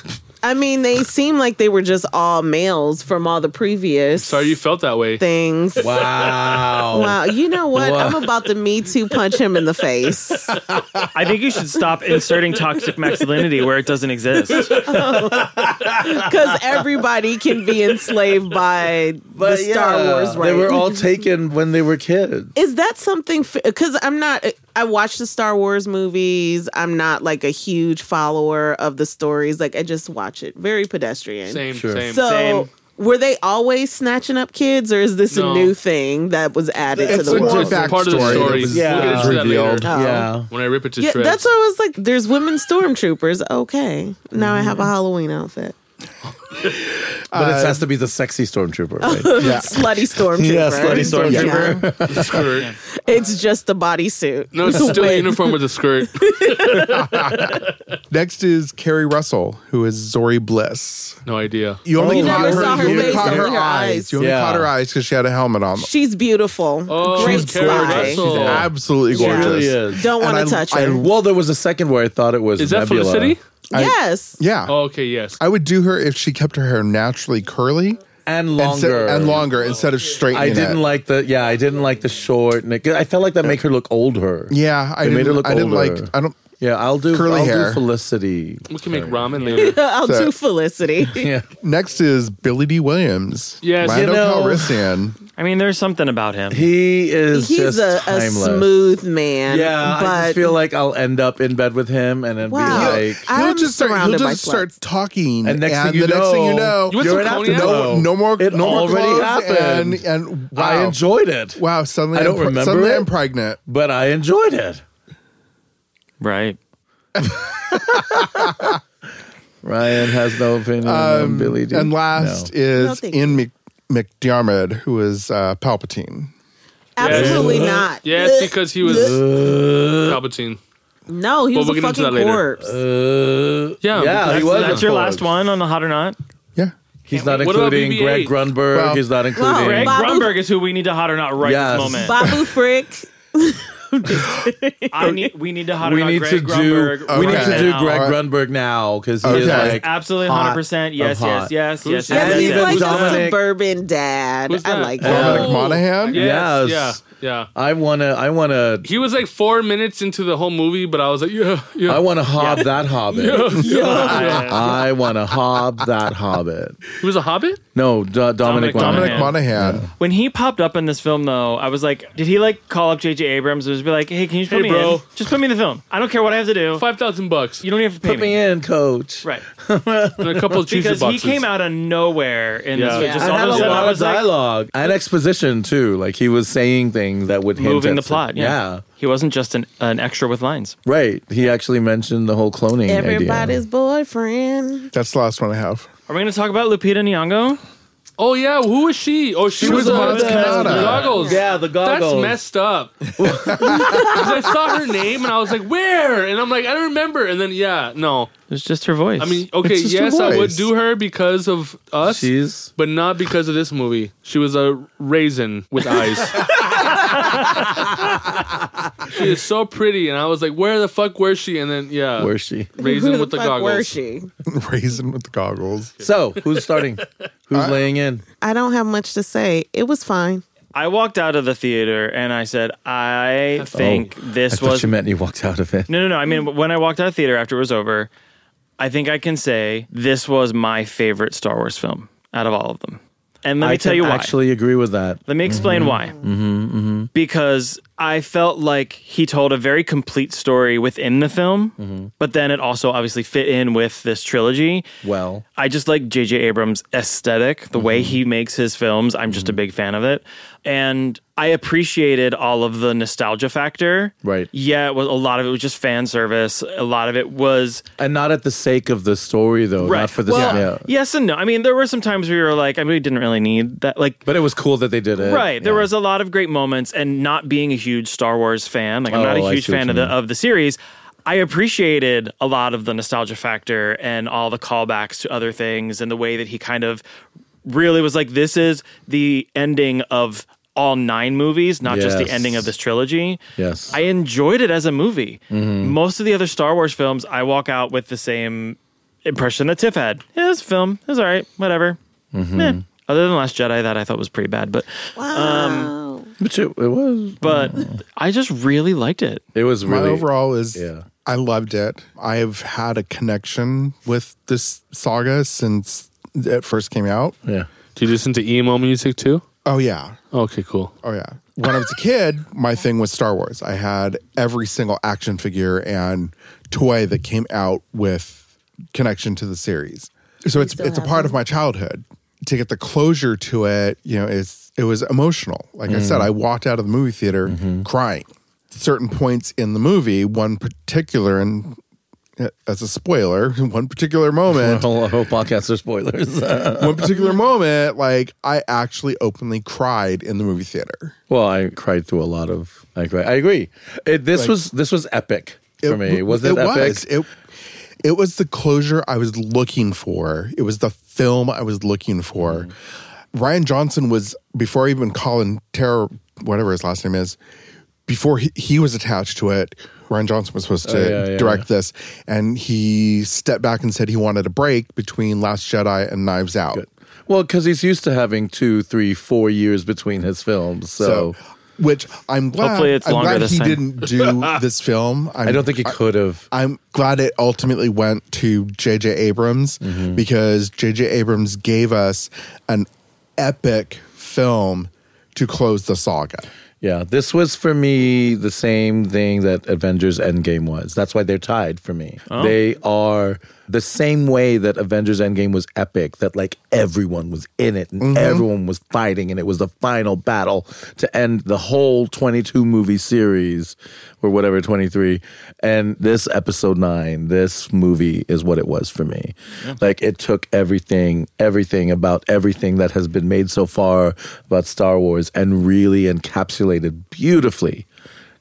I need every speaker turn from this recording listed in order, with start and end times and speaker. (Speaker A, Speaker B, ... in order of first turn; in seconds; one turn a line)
Speaker A: 0.4-4.6
Speaker B: 4.2-5.2
Speaker A: 5.2-6.3
Speaker C: 5.8-8.3
Speaker A: 6.9-10.6
Speaker C: 10.6-10.8
Speaker D: 11.1-14.8
Speaker B: 14.5-15.1
Speaker A: 14.6-21.0
Speaker C: 14.7-16.4
Speaker C: 19.3-22.5
Speaker A: 22.5-37.9
Speaker B: 31.5-32.3
Speaker C: 31.7-32.2
Speaker D: 32.2-32.7
Speaker B: 35.3-35.7
Speaker B: 37.0-39.9
Speaker E: 37.0-39.9
Speaker C: 37.3-40.5
Speaker A: 39.8-40.3
Speaker B: 40.5-41.5
Speaker A: 41.0-45.7
Speaker C: 44.4-44.8
Speaker E: 46.6-47.9
Speaker C: 47.3-52.5
Speaker A: 49.0-51.9
Speaker E: 49.4-49.9
Speaker D: 50.8-51.8
Speaker E: 51.2-52.2
Speaker B: 52.1-52.7
Speaker D: 52.5-52.8
Speaker A: 52.9-57.5
Speaker B: 54.5-57.5
Speaker E: 57.0-61.2
Speaker B: 61.2-61.8
Speaker E: 61.8-65.9
Speaker C: 61.9-63.5
Speaker A: 62.0-64.1
Speaker C: 64.2-64.7
Speaker A: 65.8-68.2
Speaker B: 66.9-68.7
Speaker E: 67.1-71.1
Speaker C: 68.2-70.1
Speaker A: 69.1-71.0
Speaker C: 70.9-73.3
Speaker B: 72.6-73.4
Speaker E: 73.7-74.8
Speaker A: 73.7-74.4
Speaker B: 74.7-75.4
Speaker E: 75.4-78.0
Speaker C: 78.2-79.5
Speaker E: 78.5-80.8
Speaker C: 80.3-89.4
Speaker E: 84.5-86.4
Speaker E: 87.1-87.8
Speaker B: 88.7-89.8
Speaker A: 89.5-91.3
Speaker E: 90.0-90.3
Speaker C: 91.0-91.5
Speaker E: 91.6-95.2
Speaker B: 93.6-94.2
Speaker C: 93.8-94.9
Speaker D: 95.4-96.7
Speaker C: 96.5-98.7
Speaker A: 97.3-100.5
Speaker C: 99.5-103.3
Speaker A: 102.4-104.7
Speaker E: 102.6-111.0
Speaker C: 105.4-111.6
Speaker B: 106.9-107.9
Speaker E: 111.5-113.6
Speaker C: 112.1-113.1
Speaker C: 113.7-114.8
Speaker D: 116.2-116.6
Speaker E: 117.2-118.7
Speaker C: 117.4-118.7
Speaker C: 119.6-122.5
Speaker E: 120.8-126.3
Speaker A: 122.7-123.4
Speaker A: 127.0-129.2
Speaker B: 127.0-129.2
Speaker C: 127.0-127.9
Speaker C: 128.8-130.2
Speaker B: 130.0-130.6
Speaker A: 131.1-132.7
Speaker B: 131.5-132.4
Speaker C: 132.6-135.3
Speaker B: 133.8-134.9
Speaker D: 134.2-136.2
Speaker C: 137.1-140.0
Speaker D: 137.1-137.4
Speaker B: 137.3-138.4
Speaker E: 138.7-139.0
Speaker A: 139.3-140.4
Speaker D: 139.6-142.2
Speaker C: 141.4-142.2
Speaker A: 141.9-145.3
Speaker E: 142.2-142.5
Speaker D: 144.9-148.0
Speaker C: 145.8-151.5
Speaker E: 147.1-148.2
Speaker E: 149.2-149.8
Speaker D: 149.3-153.2
Speaker B: 151.8-153.2
Speaker C: 152.1-153.4
Speaker A: 152.1-155.5
Speaker B: 154.5-157.5
Speaker E: 155.0-156.2
Speaker C: 155.0-157.0
Speaker C: 157.5-158.9
Speaker B: 158.8-164.8
Speaker C: 161.9-166.8
Speaker D: 162.4-162.7
Speaker A: 163.1-164.6
Speaker D: 163.8-164.8
Speaker B: 167.0-167.6
Speaker C: 167.7-169.9
Speaker D: 168.4-169.4
Speaker E: 168.7-169.9
Speaker D: 170.0-176.8
Speaker B: 174.5-175.1
Speaker B: 176.8-177.6
Speaker D: 177.6-178.4
Speaker C: 178.0-180.7
Speaker B: 180.2-181.4
Speaker D: 180.7-184.3
Speaker B: 182.7-183.9
Speaker A: 182.9-183.9
Speaker C: 183.1-188.8
Speaker D: 187.5-190.8
Speaker C: 190.8-193.6
Speaker A: 192.9-194.9
Speaker E: 194.9-195.9
Speaker D: 196.1-197.6
Speaker B: 198.2-208.3
Speaker C: 199.5-202.4
Speaker E: 199.6-201.1
Speaker D: 199.9-201.3
Speaker A: 201.2-201.4
Speaker C: 203.2-204.3
Speaker E: 203.2-204.2
Speaker D: 208.5-209.4
Speaker B: 209.2-216.5
Speaker E: 209.6-210.7
Speaker C: 212.0-212.7
Speaker C: 216.3-216.9
Speaker D: 216.9-217.7
Speaker C: 217.4-218.6
Speaker B: 219.1-223.9
Speaker C: 222.2-222.7
Speaker A: 222.8-224.3
Speaker E: 224.4-226.1
Speaker B: 226.0-226.9
Speaker C: 226.0-228.2
Speaker E: 227.5-227.8
Speaker A: 228.4-230.4
Speaker D: 230.7-234.9
Speaker B: 233.6-233.8
Speaker C: 233.7-235.9
Speaker D: 235.9-238.1
Speaker D: 238.8-244.3
Speaker C: 243.6-247.1
Speaker D: 245.2-246.2
Speaker D: 247.1-254.8
Speaker C: 251.8-252.1
Speaker C: 255.0-255.4
Speaker D: 255.6-267.8
Speaker C: 257.7-258.2
Speaker C: 259.3-259.6
Speaker C: 264.2-264.5
Speaker C: 268.0-270.9
Speaker D: 269.8-274.2
Speaker E: 270.3-270.7
Speaker C: 274.2-275.9
Speaker D: 275.2-287.0
Speaker C: 279.1-280.1
Speaker D: 287.6-293.4
Speaker C: 291.9-292.7
Speaker C: 293.6-294.0
Speaker D: 293.9-302.0
Speaker C: 295.5-296.0
Speaker C: 302.3-302.8
Speaker D: 302.5-305.9
Speaker A: 305.1-306.3
Speaker C: 306.4-308.0
Speaker D: 307.4-309.4
Speaker C: 309.5-311.0
Speaker E: 309.8-317.4
Speaker B: 317.9-319.4
Speaker E: 319.6-320.2
Speaker B: 320.3-320.9
Speaker E: 321.0-341.8
Speaker A: 330.6-331.4
Speaker C: 335.9-336.3
Speaker C: 337.5-337.9
Speaker E: 342.4-344.9
Speaker C: 344.5-347.1
Speaker E: 346.8-351.1
Speaker C: 351.3-357.0
Speaker E: 355.8-357.3
Speaker E: 358.0-362.7
Speaker C: 362.4-362.7
Speaker E: 363.3-367.4
Speaker E: 368.1-376.8
Speaker C: 370.8-371.6
Speaker C: 376.7-381.3
Speaker E: 381.0-386.0
Speaker D: 382.6-383.8
Speaker B: 384.2-384.5
Speaker C: 385.4-386.4
Speaker E: 386.5-396.4
Speaker C: 389.8-390.2
Speaker C: 396.8-427.9
Speaker D: 402.3-402.6
Speaker E: 408.0-408.4